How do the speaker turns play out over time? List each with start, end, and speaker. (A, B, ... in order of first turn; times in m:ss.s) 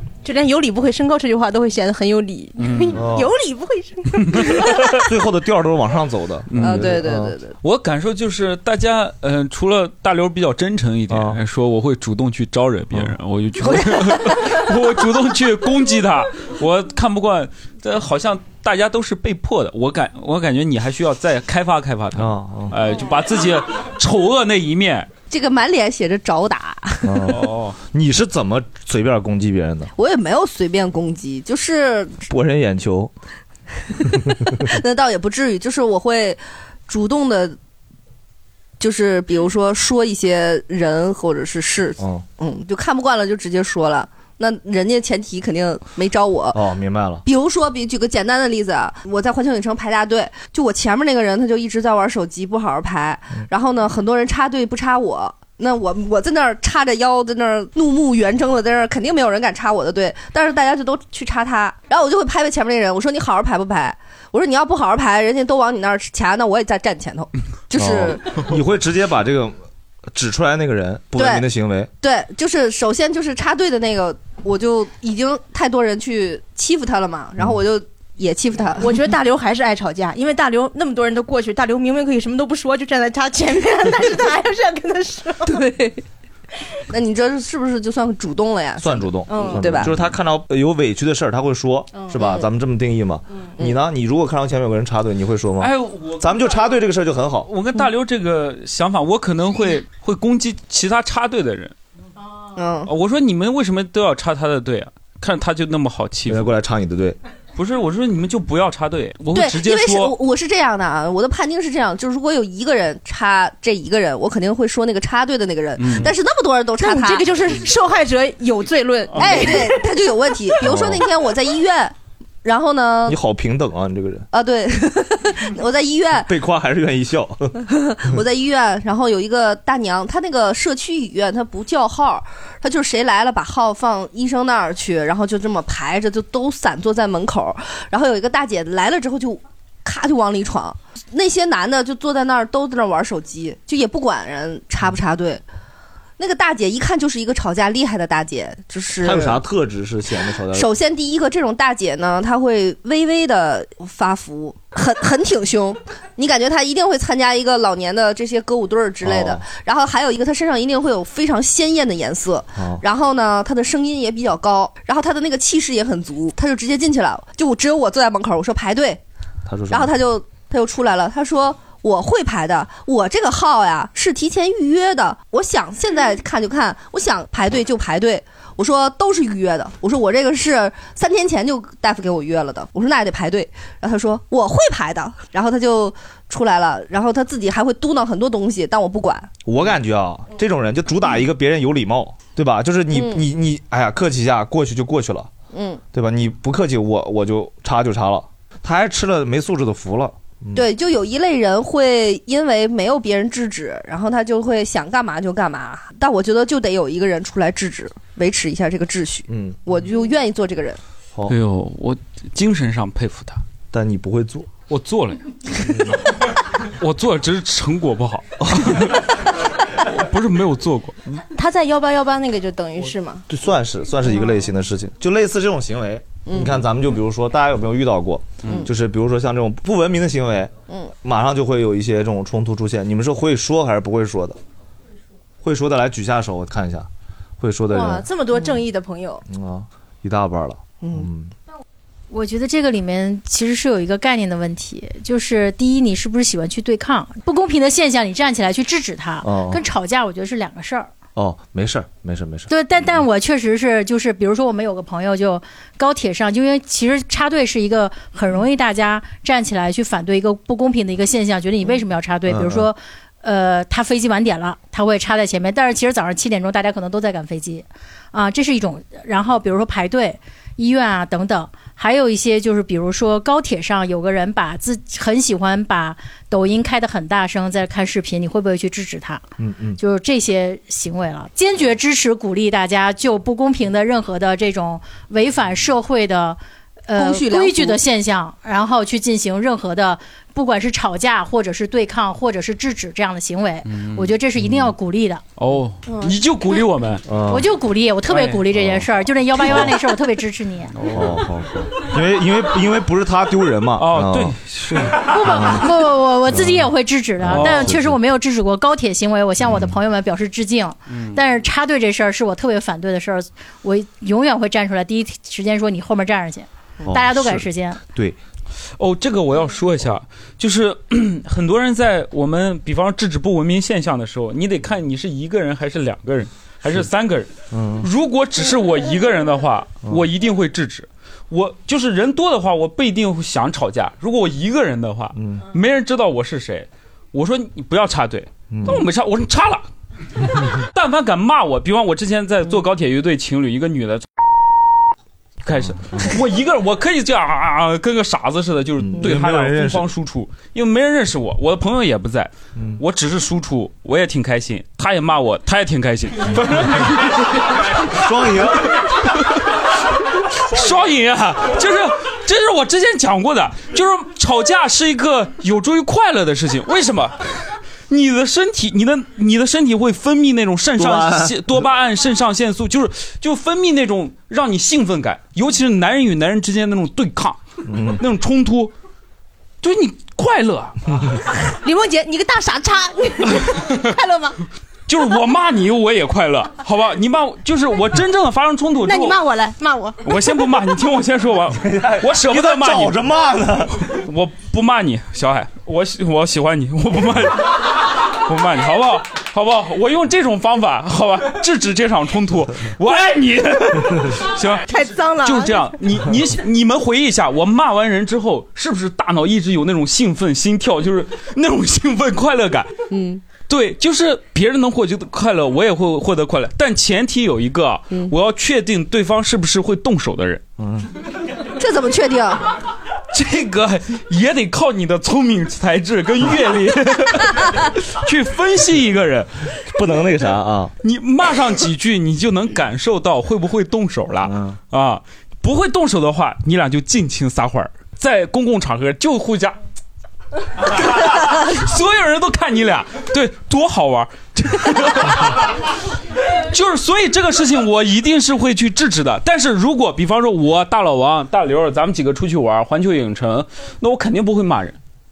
0:00.2-0:04.9 A
0:02.6-0:03.0 B
0:02.9-0:03.3 C
0:05.0-0:07.4 C
0:06.5-0:07.0 B
0:06.6-0:07.5 D
0:07.6-0:25.1 B
0:11.1-0:11.4 C
0:22.2-0:22.8 C
0:25.3-0:27.1 D
0:27.0-0:29.9 C
0:27.3-0:27.8 B
0:30.0-0:32.2 D
0:32.3-0:33.1 C
0:34.6-0:37.6 D
0:38.8-0:46.6 D
0:42.0-0:42.2 C
0:46.5-0:47.2 C
0:47.2-1:08.2 D
1:07.7-1:09.6 C
1:10.1-1:11.9 C
1:11.2-1:11.4 D
1:12.0-1:19.0 D
1:18.8-1:26.0 A
1:26.9-1:29.9 D
1:28.8-1:37.5 C
1:29.3-1:29.8 A
1:31.9-1:32.2 A
1:35.6-1:36.2 B
1:37.5-1:41.7 B
1:42.5-1:42.9 D
1:42.8-1:46.5 B
1:46.3-1:47.2 C
1:47.5-1:50.2 B
1:49.3-1:57.3 D
1:55.8-1:56.1 B
1:56.8-1:59.8 A
1:59.2-2:03.2 D
2:00.6-2:01.0 C
2:03.1-2:04.3 C
2:04.3-2:06.3 D
2:06.2-2:07.6 C
2:07.7-2:25.4 D
2:26.2-2:29.4 D
2:29.0-2:30.7 C
2:30.5-2:49.0 D
2:39.0-2:39.4 C
2:42.5-2:42.8 C
2:49.4-2:49.9 C
2:49.7-3:09.3 D
3:09.4-3:15.3 C
3:12.9-3:13.2 D
3:15.5-3:15.8 D
3:15.9-3:20.7 C
3:20.5-3:30.8 D
3:29.3-3:29.6 C
3:31.3-3:33.4 B
3:33.7-3:34.5 C
3:34.7-3:35.2 B
3:36.8-3:38.9 B
3:38.4-3:38.9 C
3:40.0-3:41.2 B
3:41.3-3:43.2 A
3:43.3-3:54.4 C
3:55.4-3:56.9 C
3:57.4-3:58.0 C
3:57.7-3:59.2 A
3:59.3-4:01.3 C
4:02.1-4:10.9 E
4:09.2-4:09.6 C
4:11.2-4:12.5 C
4:12.5-4:39.2 E
4:22.2-4:22.7 C
4:39.4-4:39.8 C
4:39.8-4:55.2 E
4:46.9-4:47.8 D
4:53.7-4:54.1 B
4:54.4-4:54.7 C
4:55.4-4:57.0 B
4:57.0-4:57.5 C
4:57.3-5:00.8 E
4:58.1-4:58.4 B
4:58.5-4:59.7 C
5:00.7-5:01.2 B
5:00.9-5:05.7 C
5:03.8-5:04.4 B
5:05.0-5:17.8 E
5:06.3-5:08.0 C
5:07.2-5:07.6 B
5:09.4-5:09.8 C
5:10.9-5:11.2 B
5:16.8-5:18.2 C
5:18.8-5:27.3 B
5:27.5-5:27.9 C
5:27.8-5:39.6 B
5:35.2-5:35.4 C
5:38.5-5:38.8 C
5:40.7-5:44.0 B
5:45.4-5:57.0 B
5:45.7-5:46.0 C
5:48.8-5:49.9 C
5:52.6-5:52.8 C
5:57.9-5:58.7 C
6:00.5-6:07.2 B
6:07.9-6:17.4 B
6:10.8-6:11.5 C
6:17.6-6:18.0 C
6:18.0-6:18.7 B
6:19.6-6:20.8 B
6:21.5-6:24.4 A
6:24.9-6:29.2 B
6:28.8-6:30.0 A
6:30.0-6:33.0 B
6:31.6-6:33.8 C
6:34.0-6:37.5 B
6:38.2-6:44.6 B
6:44.6-6:45.7 A
6:45.2-6:52.7 B
6:52.9-6:53.2 D
6:53.4-7:00.4 B
7:00.6-7:00.9 C
7:01.6-7:02.4 D
7:03.1-7:09.3 B
7:09.7-7:10.7 C
7:10.8-7:19.6 B
7:14.2-7:14.6 C
7:20.7-7:25.4 B
7:26.5-7:34.8 B